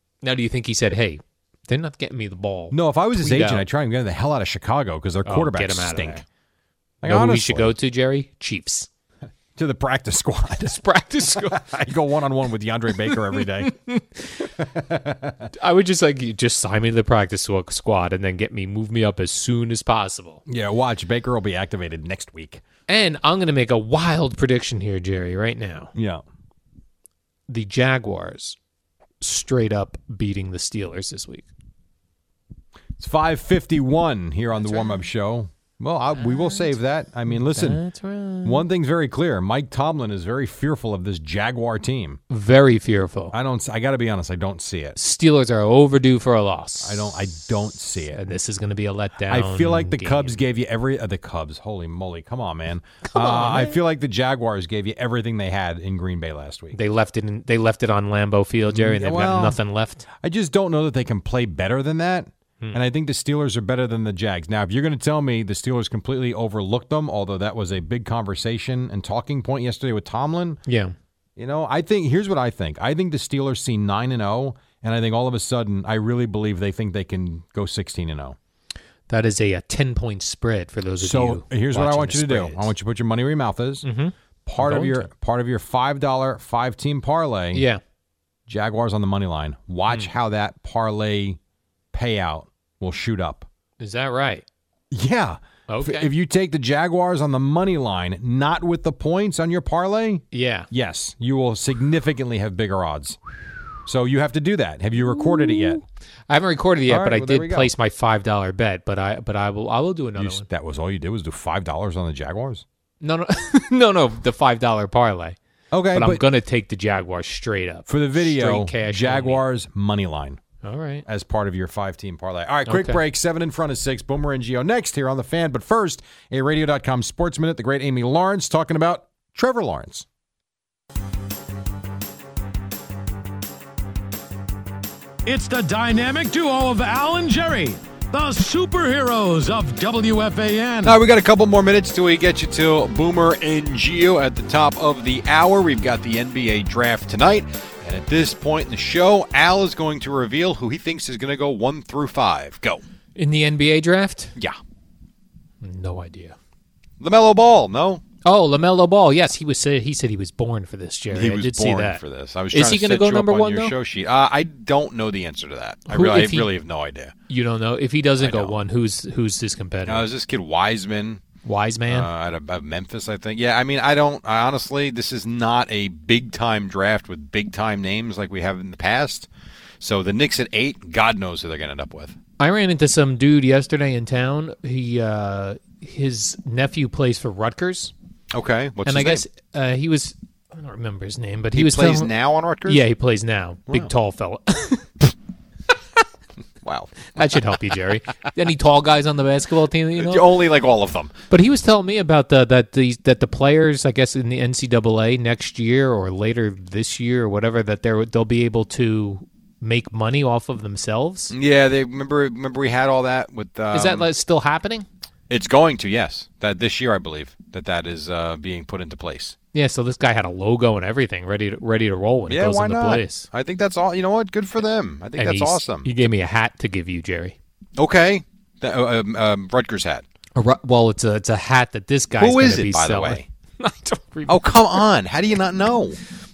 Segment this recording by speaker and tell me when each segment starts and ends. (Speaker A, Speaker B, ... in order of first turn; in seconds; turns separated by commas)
Speaker A: 0.2-3.6, Speaker B: 2.7-6.2, Speaker A: 5.2-6.2, Speaker B: 7.0-7.7, Speaker A: 7.0-8.9, Speaker B: 9.6-13.8, Speaker A: 10.6-11.6, Speaker A: 13.0-14.5, Speaker B: 14.4-15.5, Speaker A: 15.5-20.4, Speaker B: 20.4-22.6, Speaker A: 22.9-25.9, Speaker B: 25.9-26.2, Speaker A: 27.5-28.6, Speaker A: 29.2-31.5, Speaker B: 33.0-37.8, Speaker A: 34.5-35.1, Speaker A: 36.1-36.7, Speaker A: 37.3-38.6, Speaker B: 38.4-42.2, Speaker A: 42.3-43.3, Speaker B: 43.3-45.0, Speaker A: 45.0-47.3, Speaker B: 46.8-48.2, Speaker A: 48.1-50.4, Speaker B: 49.3-56.8, Speaker A: 53.1-53.8, Speaker A: 56.7-60.0, Speaker B: 58.7-59.6, Speaker B: 60.2-70.6, Speaker A: 70.7-70.9, Speaker B: 71.4-78.4, Speaker A: 79.1-82.7, Speaker B: 81.0-83.8, Speaker A: 83.8-85.1, Speaker B: 84.5-87.7, Speaker A: 87.5-87.8, Speaker B: 88.5-91.4, Speaker A: 89.9-90.1, Speaker B: 91.9-93.5, Speaker A: 93.8-94.4, Speaker B: 94.9-103.2, Speaker A: 95.7-96.1, Speaker A: 100.3-100.7, Speaker B: 103.8-105.8, Speaker A: 105.0-110.5, Speaker B: 106.9-107.7, Speaker B: 110.2-112.6, Speaker A: 113.0-115.4, Speaker B: 115.7-116.2, Speaker A: 115.9-119.4, Speaker B: 117.9-120.4, Speaker A: 120.6-121.0, Speaker B: 121.0-130.1, Speaker A: 122.7-123.0, Speaker C: 135.2-141.0, Speaker B: 140.8-152.8, Speaker A: 153.2-154.3, Speaker A: 155.6-156.3, Speaker B: 157.0-158.0, Speaker A: 158.2-162.0, Speaker B: 161.1-167.1, Speaker A: 162.5-163.7, Speaker A: 165.9-166.5, Speaker A: 167.3-170.1, Speaker B: 168.2-168.6, Speaker B: 169.8-171.2, Speaker A: 171.4-172.1, Speaker B: 171.9-179.3, Speaker B: 179.8-182.2, Speaker A: 182.4-187.9, Speaker B: 188.3-189.2, Speaker A: 188.8-192.1, Speaker B: 191.5-192.8, Speaker A: 192.6-195.1, Speaker B: 196.6-197.1, Speaker A: 197.1-200.3, Speaker B: 199.9-201.1, Speaker A: 201.3-211.3, Speaker B: 211.3-214.1, Speaker A: 213.7-214.9, Speaker B: 215.3-219.3, Speaker A: 219.5-223.3, Speaker B: 222.3-225.9, Speaker A: 225.2-227.4, Speaker B: 227.8-230.0, Speaker A: 230.3-234.8, Speaker B: 232.2-233.2, Speaker B: 234.3-236.0